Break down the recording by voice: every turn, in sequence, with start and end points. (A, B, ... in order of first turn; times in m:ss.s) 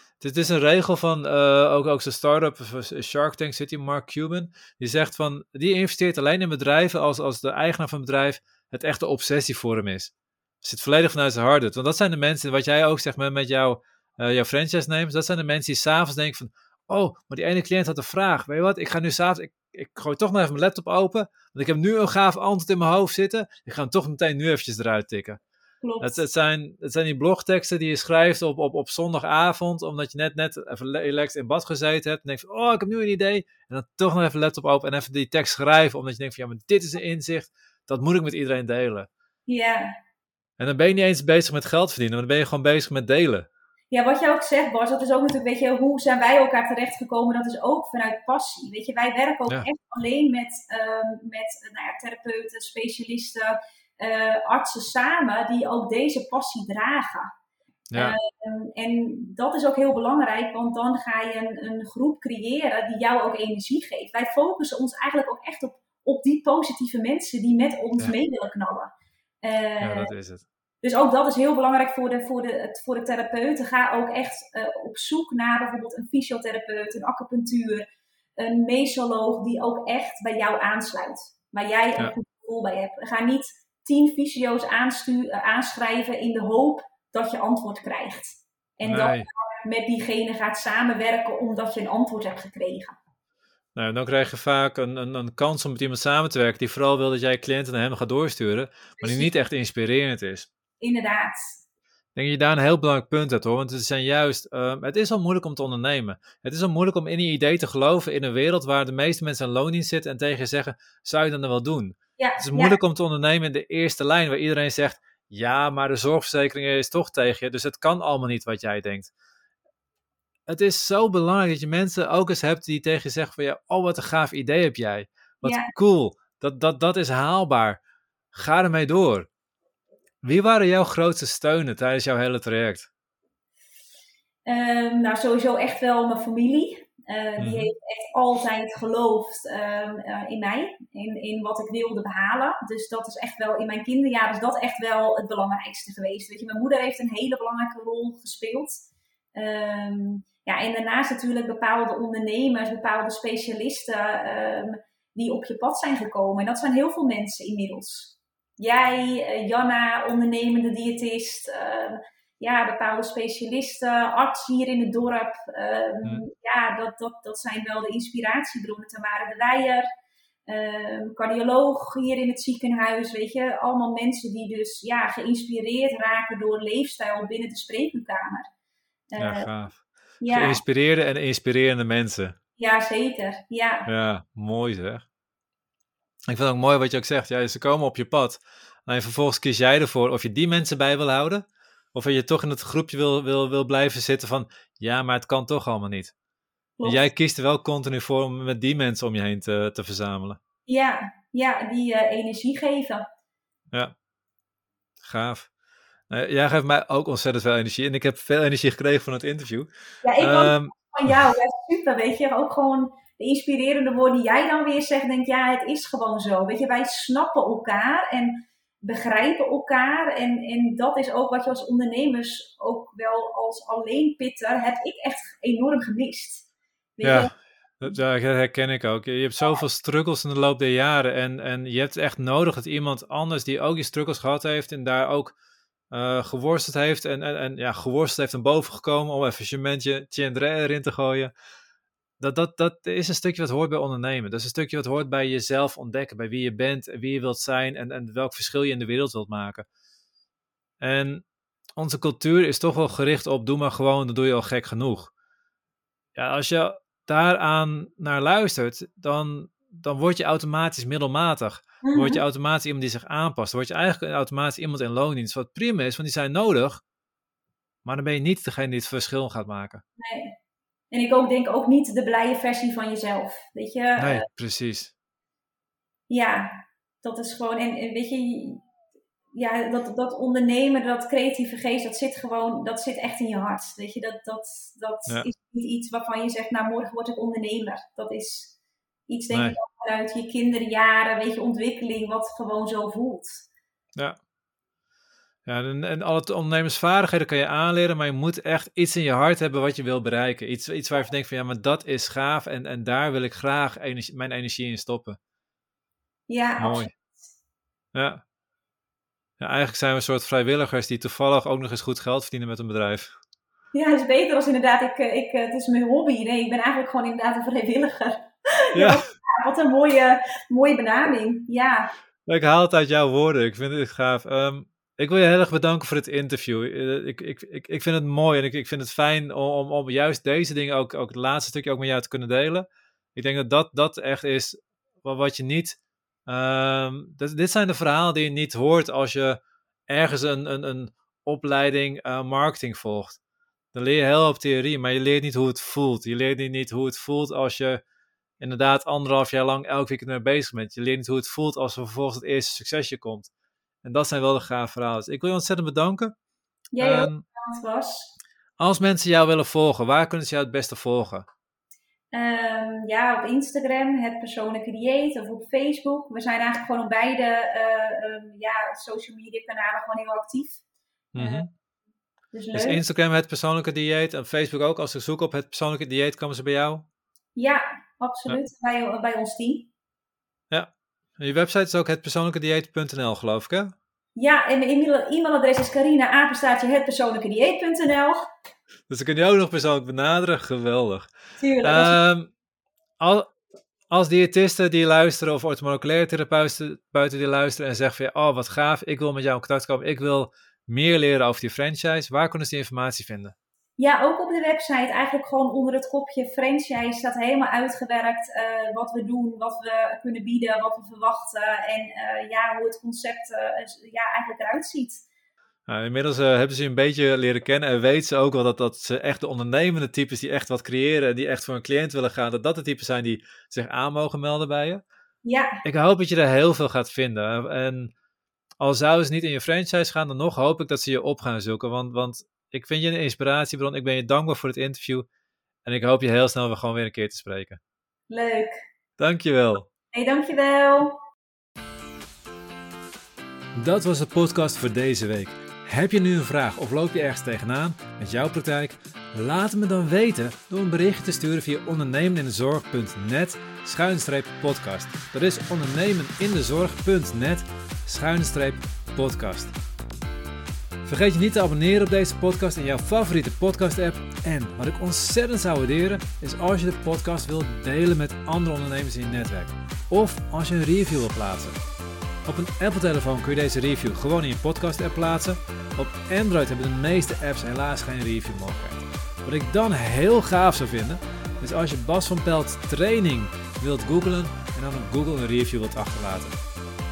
0:00.2-0:25.4 A
0:25.8-0:26.2 B
0:26.0-0:39.1 A
0:39.5-0:39.9 B
0:40.6-0:43.5 A
0:43.9-0:57.3 B
0:57.9-1:08.9 B
1:09.4-1:10.1 B
1:09.8-1:10.4 A
1:10.8-1:17.8 B
1:18.4-1:33.0 B
1:28.8-1:29.3 A
1:33.7-1:40.5 A
1:39.0-1:39.3 B
1:40.8-1:41.6 B
1:42.1-1:59.1 A
1:52.2-1:52.8 B
2:00.5-2:07.8 A
2:05.4-2:05.7 B
2:08.3-2:09.3 A
2:10.2-2:12.9 A
2:14.5-2:49.8 B
2:17.4-2:17.7 A
2:50.5-2:58.5 B
2:59.1-2:59.5 B
2:59.2-3:02.3 A
3:00.2-3:00.6 B
3:02.6-3:03.9 B
3:03.9-3:05.0 A
3:06.3-3:16.1 A
3:16.8-3:17.1 B
3:16.8-3:20.4 A
3:20.7-3:23.0 B
3:25.0-3:25.5 A
3:26.1-3:29.7 A
3:30.0-3:46.4 B
3:30.2-3:31.2 A
3:47.0-3:47.3 B
3:47.0-3:55.3 A
3:55.9-4:01.3 A
4:02.2-4:09.6 A
4:10.8-4:11.2 A
4:11.8-4:15.1 A
4:16.1-4:26.8 A
4:21.8-4:22.2 B
4:27.8-4:29.8 A
4:30.0-4:30.3 B
4:30.9-4:34.2 B
4:34.0-4:34.9 A
4:36.1-4:38.6 B
4:39.3-4:48.5 B
4:49.1-4:53.4 B
4:49.3-4:49.6 A
4:55.4-5:05.2 A
5:06.3-5:06.9 B
5:06.6-5:06.9 A
5:07.9-5:08.2 A
5:09.4-5:13.1 A
5:13.7-5:21.9 B
5:18.7-5:19.0 A
5:22.2-5:43.2 A
5:43.7-5:47.8 A
5:48.4-5:53.3 A
5:53.8-5:56.1 A
5:56.7-5:58.1 B
5:56.8-5:57.2 A
5:58.6-6:01.2 A
6:02.1-6:10.6 B
6:11.1-6:11.5 A
6:11.2-6:11.4 B
6:12.3-6:12.8 B
6:12.5-6:16.8 A
6:17.4-6:19.7 B
6:20.5-6:23.7 A
6:24.2-6:28.2 B
6:28.9-6:31.1 A
6:31.4-6:32.0 B
6:31.6-6:32.3 A
6:33.0-6:33.3 A
6:33.9-6:43.3 A
6:43.8-6:55.0 B
6:55.7-7:04.8 A
7:05.2-7:05.6 B
7:05.6-7:07.9 A
7:08.6-7:15.0 A
7:15.6-7:17.6 A
7:18.1-7:18.6 B
7:19.0-7:19.6 A
7:19.9-7:20.9 B
7:23.6-7:39.5 A
7:40.8-7:51.6 A
7:52.2-8:06.4 A